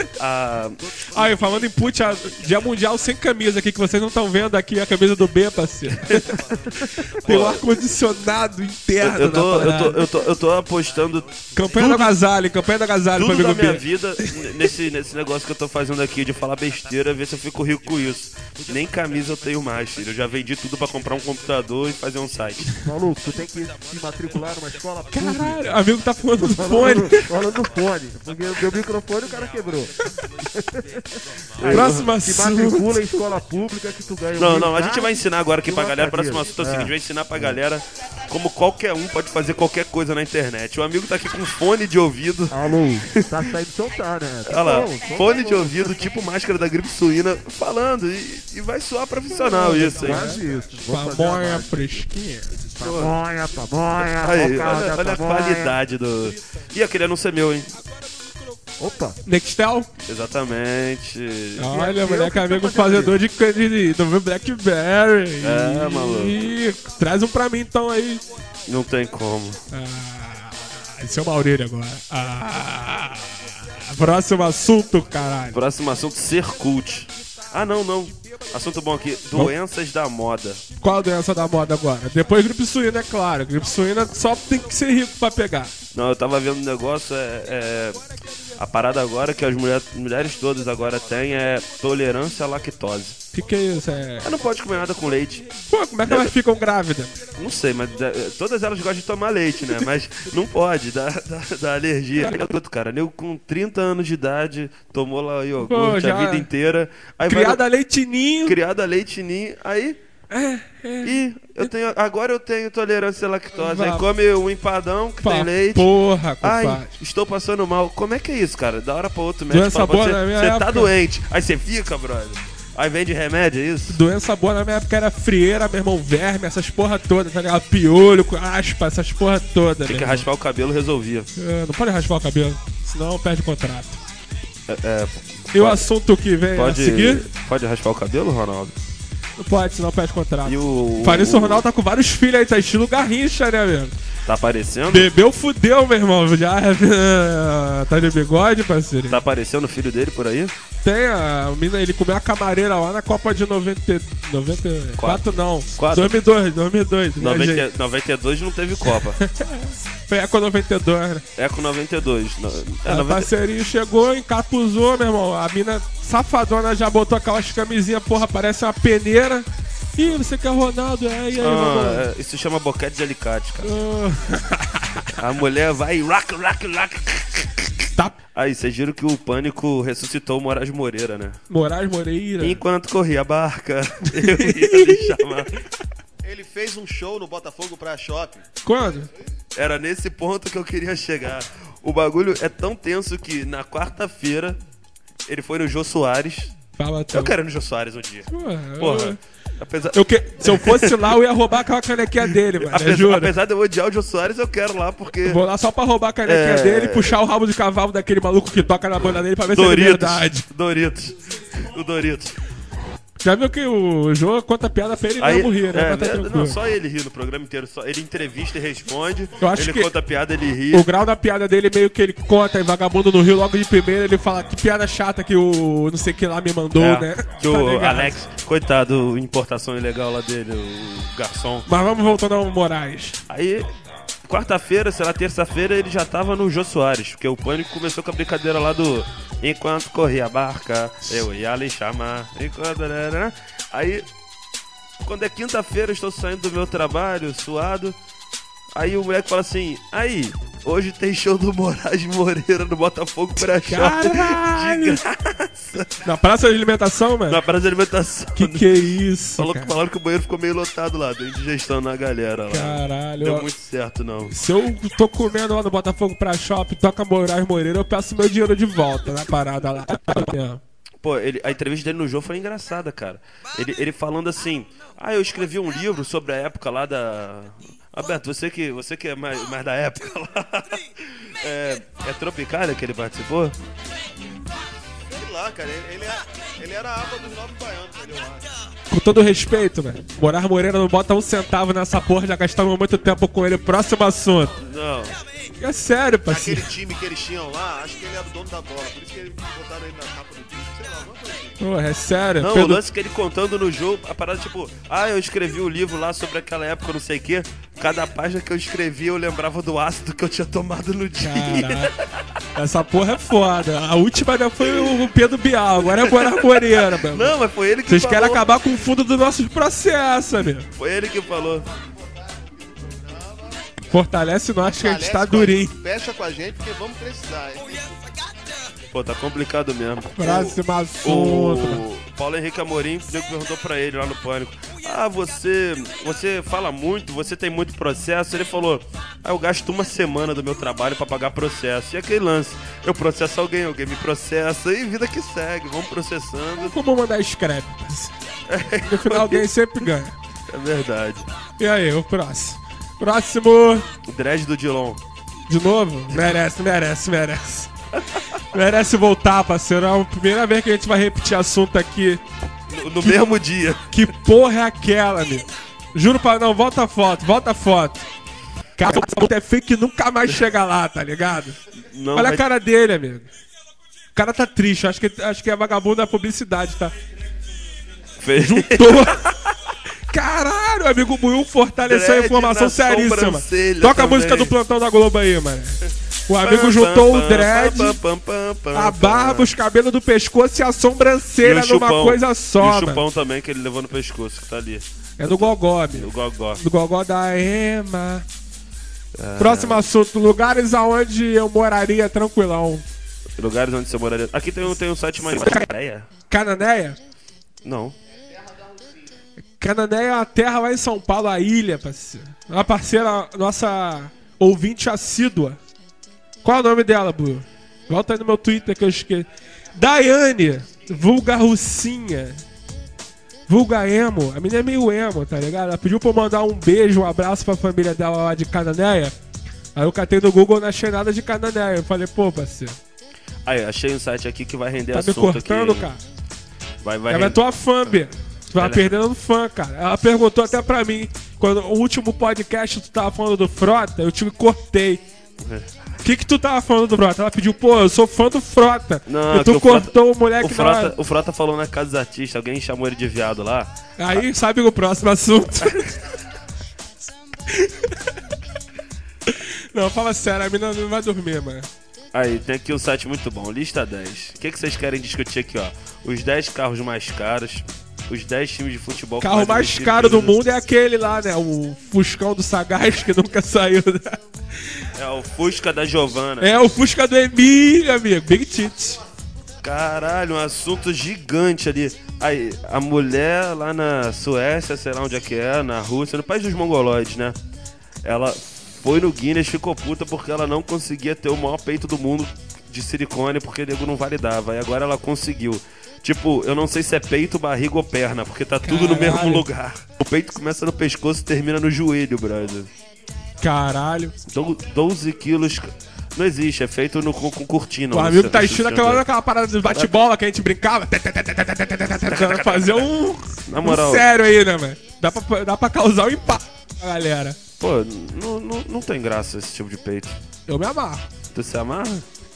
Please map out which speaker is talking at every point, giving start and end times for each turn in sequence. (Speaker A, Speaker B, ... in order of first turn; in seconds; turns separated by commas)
Speaker A: 0.2-1.0, Speaker B: 1.1-6.4, Speaker A: 7.2-7.6, Speaker B: 7.2-10.0, Speaker A: 9.0-12.1, Speaker B: 11.5-13.8, Speaker A: 13.1-22.7, Speaker C: 22.7-25.8, Speaker B: 25.1-27.3, Speaker C: 26.4-37.6, Speaker A: 31.6-32.1, Speaker B: 31.7-33.0, Speaker A: 34.4-43.4, Speaker C: 42.5-46.0, Speaker A: 44.5-50.4, Speaker B: 49.4-52.6, Speaker C: 50.0-52.0, Speaker C: 52.8-55.8, Speaker A: 52.8-53.2, Speaker A: 54.2-57.8, Speaker C: 58.8-59.2, Speaker B: 59.2-59.9, Speaker A: 60.0-61.7, Speaker B: 61.6-68.2, Speaker C: 61.7-63.2, Speaker A: 65.4-66.4, Speaker A: 68.7-69.6, Speaker B: 69.7-75.6, Speaker A: 75.5-80.6, Speaker B: 80.8-85.7, Speaker A: 85.9-88.0, Speaker A: 88.5-93.2, Speaker B: 93.3-94.3, Speaker A: 94.2-95.5, Speaker B: 95.7-97.2, Speaker A: 96.0-96.3, Speaker A: 97.3-107.6, Speaker B: 105.6-106.5, Speaker B: 107.2-108.6, Speaker A: 108.4-110.0, Speaker B: 110.3-111.7, Speaker A: 111.0-115.9, Speaker B: 113.5-114.0, Speaker B: 115.2-116.9, Speaker A: 116.4-124.0, Speaker B: 119.5-120.9, Speaker B: 123.9-130.2, Speaker A: 129.8-131.3, Speaker B: 131.3-134.0, Speaker A: 134.7-135.8, Speaker B: 135.5-137.2, Speaker A: 136.5-138.8, Speaker B: 139.4-143.9, Speaker A: 140.4-141.6, Speaker A: 144.2-145.1, Speaker B: 144.9-149.2, Speaker A: 149.1-150.5, Speaker B: 150.8-157.7, Speaker A: 155.0-156.2, Speaker A: 157.2-159.2, Speaker B: 159.0-161.2, Speaker A: 161.3-163.3, Speaker B: 162.8-172.1, Speaker A: 171.3-173.7, Speaker B: 173.6-175.1, Speaker A: 175.2-181.4, Speaker B: 181.5-182.6, Speaker A: 182.4-185.5, Speaker B: 184.1-185.3, Speaker D: 186.2-188.4, Speaker B: 188.6-189.1, Speaker A: 189.5-194.6, Speaker A: 195.2-196.5, Speaker B: 196.8-197.3, Speaker A: 197.1-201.2, Speaker B: 198.3-199.2, Speaker B: 199.9-203.3, Speaker A: 202.3-205.4, Speaker B: 205.2-210.5, Speaker A: 206.2-207.2, Speaker A: 209.4-212.4, Speaker B: 213.2-216.6, Speaker A: 215.2-220.9, Speaker B: 219.4-219.9, Speaker B: 220.7-228.1, Speaker A: 226.7-231.7, Speaker B: 231.7-233.2, Speaker A: 233.3-233.7, Speaker A: 234.2-244.1, Speaker A: 245.0-248.0, Speaker A: 248.7-255.9, Speaker B: 253.4-255.0, Speaker B: 256.0-257.4, Speaker A: 257.3-264.3, Speaker B: 258.4-259.7, Speaker B: 262.5-263.5, Speaker B: 264.3-270.6, Speaker A: 271.0-283.6, Speaker D: 285.1-288.5, Speaker B: 288.9-294.6, Speaker A: 294.6-295.2, Speaker B: 295.6-296.7, Speaker D: 296.2-301.6, Speaker B: 301.6-302.8, Speaker A: 302.4-312.2, Speaker B: 311.2-311.9, Speaker B: 312.5-317.4, Speaker A: 314.6-314.9, Speaker A: 315.8-318.5, Speaker B: 317.9-320.7, Speaker A: 320.7-321.6, Speaker D: 321.8-323.7, Speaker B: 323.9-325.7, Speaker D: 324.7-327.9, Speaker A: 328.9-346.8, Speaker B: 330.2-331.8, Speaker B: 346.6-348.1, Speaker A: 348.5-349.5, Speaker B: 348.9-350.1, Speaker A: 350.5-351.3, Speaker B: 351.6-353.9, Speaker A: 354.0-355.0, Speaker B: 355.5-357.7, Speaker B: 358.5-362.2, Speaker A: 362.7-363.9, Speaker B: 363.9-368.1, Speaker B: 368.8-371.6, Speaker A: 371.8-372.4, Speaker B: 372.1-373.3, Speaker B: 374.1-376.9, Speaker A: 378.2-379.5, Speaker B: 378.4-379.2, Speaker B: 380.1-388.0, Speaker A: 381.8-384.5, Speaker A: 386.4-389.5, Speaker B: 388.7-393.0, Speaker A: 391.4-396.6, Speaker B: 395.2-398.2, Speaker A: 399.1-399.9, Speaker B: 399.4-402.8, Speaker A: 403.4-406.1, Speaker B: 405.4-405.7, Speaker B: 406.3-407.0, Speaker A: 407.6-407.9, Speaker B: 409.6-415.6, Speaker B: 416.4-422.4, Speaker B: 423.5-429.1, Speaker B: 429.7-432.8, Speaker A: 433.4-435.9, Speaker B: 434.9-436.0, Speaker A: 436.8-437.4, Speaker B: 437.1-445.0, Speaker A: 438.6-439.0, Speaker A: 445.4-445.7, Speaker B: 446.0-450.9, Speaker A: 449.1-454.2, Speaker B: 454.0-455.9, Speaker A: 455.6-456.0, Speaker B: 457.5-457.9, Speaker B: 459.3-461.7, Speaker A: 462.1-470.4, Speaker B: 469.2-474.2, Speaker A: 474.9-476.5, Speaker B: 476.4-479.0, Speaker A: 479.6-487.4, Speaker A: 488.0-502.7, Speaker B: 498.6-499.4, Speaker B: 503.4-504.1, Speaker A: 504.2-509.1, Speaker B: 507.9-517.4, Speaker A: 509.6-509.9, Speaker A: 512.0-512.9, Speaker A: 513.4-514.1, Speaker A: 517.6-520.2, Speaker B: 520.5-521.0, Speaker A: 521.3-522.0